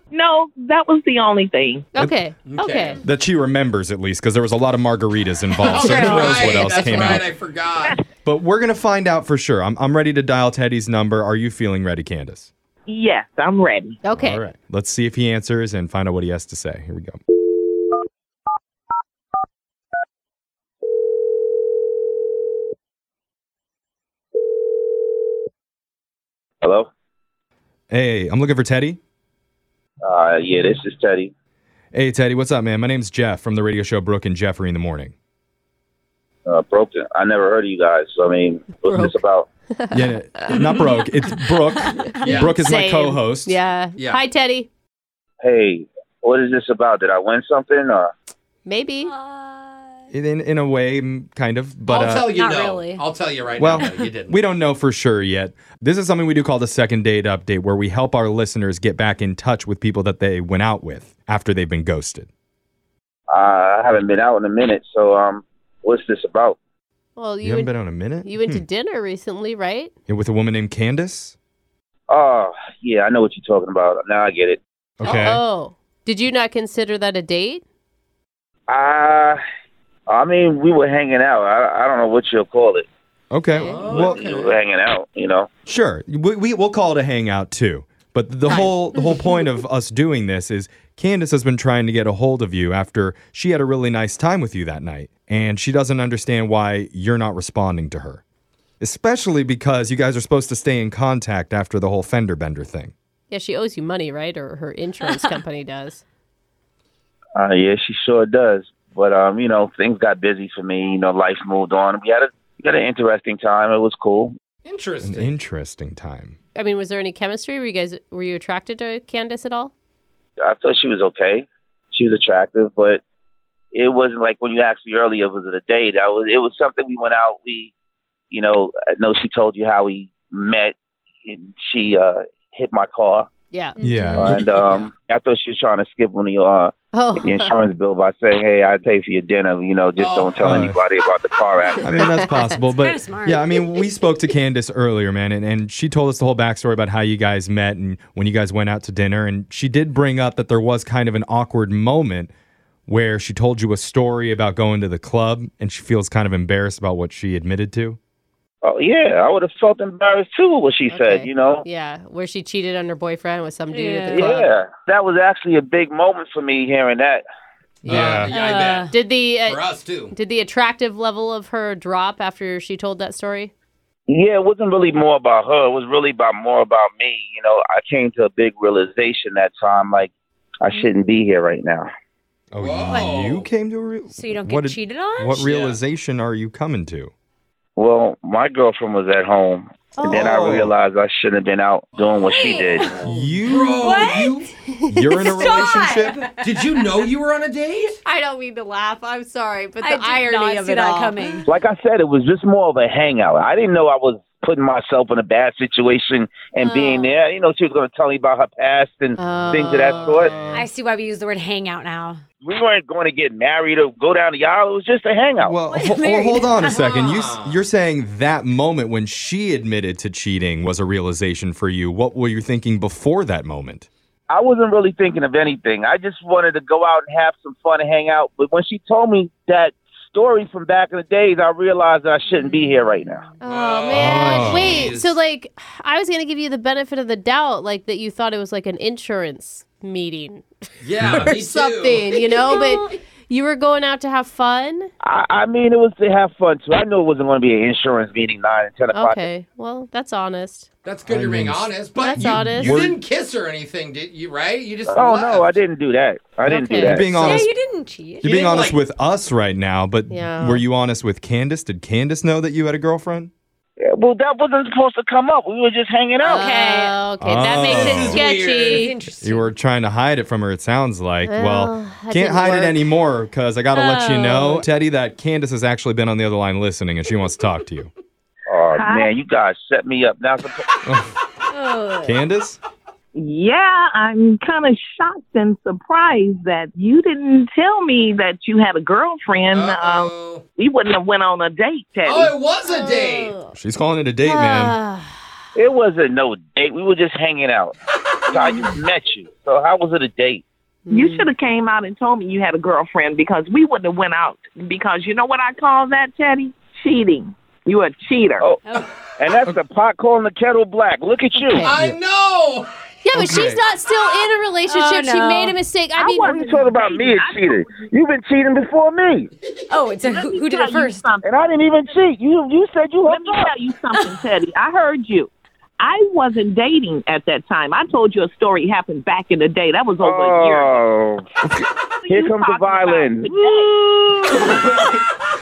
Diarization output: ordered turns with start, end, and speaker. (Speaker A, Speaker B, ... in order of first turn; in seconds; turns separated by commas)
Speaker A: 0.1-1.9, Speaker B: 1.9-3.0, Speaker C: 2.5-3.0, Speaker D: 3.0-7.3, Speaker C: 5.6-8.0, Speaker E: 5.7-7.1, Speaker D: 8.2-12.5, Speaker A: 12.9-14.0, Speaker B: 14.0-14.4, Speaker D: 14.1-17.2, Speaker F: 26.6-26.9, Speaker D: 27.9-29.0, Speaker F: 30.0-31.3, Speaker D: 31.9-35.1, Speaker F: 36.5-39.5, Speaker B: 38.8-39.2, Speaker B: 39.7-40.8, Speaker D: 39.9-43.6, Speaker E: 42.2-42.5, Speaker C: 42.2-42.6, Speaker B: 42.3-44.7, Speaker F: 45.4-48.1, Speaker B: 48.6-49.1, Speaker E: 49.0-49.9, Speaker D: 50.1-52.3, Speaker C: 51.9-54.4, Speaker E: 52.3-53.0, Speaker D: 53.6-62.3, Speaker E: 53.7-54.0, Speaker F: 63.3-66.6, Speaker B: 67.2-69.9, Speaker D: 67.4-68.6, Speaker D: 70.1-71.3, Speaker F: 72.1-74.6, Speaker D: 75.0-75.4, Speaker B: 75.0-77.6, Speaker F: 78.7-79.4, Speaker F: 80.1-82.8, Speaker D: 83.3-84.2, Speaker C: 83.6-84.5, Speaker F: 83.7-85.5, Speaker D: 85.7-98.2, Speaker D: 98.8-102.9, Speaker B: 103.3-106.0, Speaker F: 107.3-114.3, Speaker C: 114.6-115.3, Speaker D: 115.0-116.4, Speaker B: 116.5-119.7, Speaker F: 120.4-123.0, Speaker F: 123.7-127.7, Speaker F: 128.3-133.3, Speaker E: 133.8-134.3, Speaker D: 133.8-134.5, Speaker F: 134.2-141.9, Speaker B: 136.9-137.5, Speaker C: 140.0-140.6, Speaker D: 140.4-140.8, Speaker D: 141.8-152.3, Speaker B: 141.9-142.6, Speaker E: 142.8-143.6, Speaker D: 152.9-158.0, Speaker F: 158.6-161.6, Speaker B: 160.9-164.5, Speaker E: 163.7-164.3, Speaker F: 164.1-167.2, Speaker C: 167.8-168.9, Speaker D: 167.8-168.3, Speaker E: 168.2-168.9, Speaker B: 168.9-169.6, Speaker C: 169.4-170.1, Speaker B: 170.1-173.5, Speaker F: 174.1-181.9, Speaker D: 182.5-187.1, Speaker C: 182.6-183.5, Speaker E: 182.9-183.1, Speaker E: 184.1-185.5, Speaker C: 185.5-185.8, Speaker F: 187.8-192.9, Speaker B: 189.9-190.3, Speaker D: 190.0-190.7, Speaker C: 192.1-192.4, Speaker E: 192.3-193.0, Speaker C: 192.9-194.5, Speaker D: 193.1-194.0, Speaker E: 193.8-194.4, Speaker B: 194.8-195.3, Speaker D: 194.9-196.3, Speaker E: 195.1-196.5, Speaker C: 196.4-198.0, Speaker B: 198.0-201.4, Speaker E: 199.8-201.4, Speaker F: 201.5-210.3, Speaker B: 206.6-207.1, Speaker B: 209.2-210.3, Speaker C: 209.9-210.3, Speaker E: 210.5-212.2, Speaker F: 212.4-215.5, Speaker D: 215.4-223.9, Speaker E: 215.7-216.8, Speaker C: 216.8-217.6, Speaker F: 224.3-233.3, Speaker B: 233.4-240.4, Speaker C: 233.4-235.1, Speaker D: 233.9-234.9, Speaker C: 240.8-242.3, Speaker B: 241.0-244.9, Speaker D: 241.0-241.3, Speaker F: 245.0-249.2, Speaker B: 248.9-250.7, Speaker C: 250.8-255.6, Speaker D: 251.1-253.0, Speaker B: 251.9-252.8, Speaker F: 254.9-257.4, Speaker B: 256.4-257.0, Speaker D: 256.8-257.5, Speaker E: 257.2-258.4, Speaker D: 258.2-263.3, Speaker C: 258.2-258.8, Speaker B: 260.1-260.6, Speaker F: 263.8-266.4, Speaker E: 266.2-266.9, Speaker B: 266.2-268.9, Speaker D: 267.2-268.2, Speaker C: 267.5-268.9, Speaker E: 268.6-269.5, Speaker D: 269.2-277.9, Speaker B: 271.2-272.8, Speaker E: 273.7-274.7, Speaker F: 278.5-280.6, Speaker A: 278.7-279.1, Speaker D: 280.8-281.1, Speaker E: 281.5-282.2, Speaker D: 282.0-282.6, Speaker A: 283.1-292.4, Speaker C: 289.5-290.4, Speaker C: 292.1-293.4, Speaker E: 292.7-293.4, Speaker D: 293.5-294.8, Speaker B: 294.2-295.1, Speaker F: 295.6-297.7, Speaker F: 298.3-300.4, Speaker B: 300.9-301.3, Speaker A: 300.9-308.4, Speaker F: 309.2-311.7, Speaker B: 311.3-311.7, Speaker D: 311.6-312.0, Speaker C: 311.6-312.7, Speaker B: 313.0-316.6, Speaker D: 313.1-313.6, Speaker E: 314.6-315.6, Speaker A: 315.9-317.9, Speaker F: 316.2-319.3, Speaker E: 319.7-321.1, Speaker A: 320.1-321.3, Speaker F: 321.2-323.5, Speaker A: 323.0-330.8, Speaker F: 330.0-331.2, Speaker F: 332.1-334.4, Speaker A: 332.1-333.7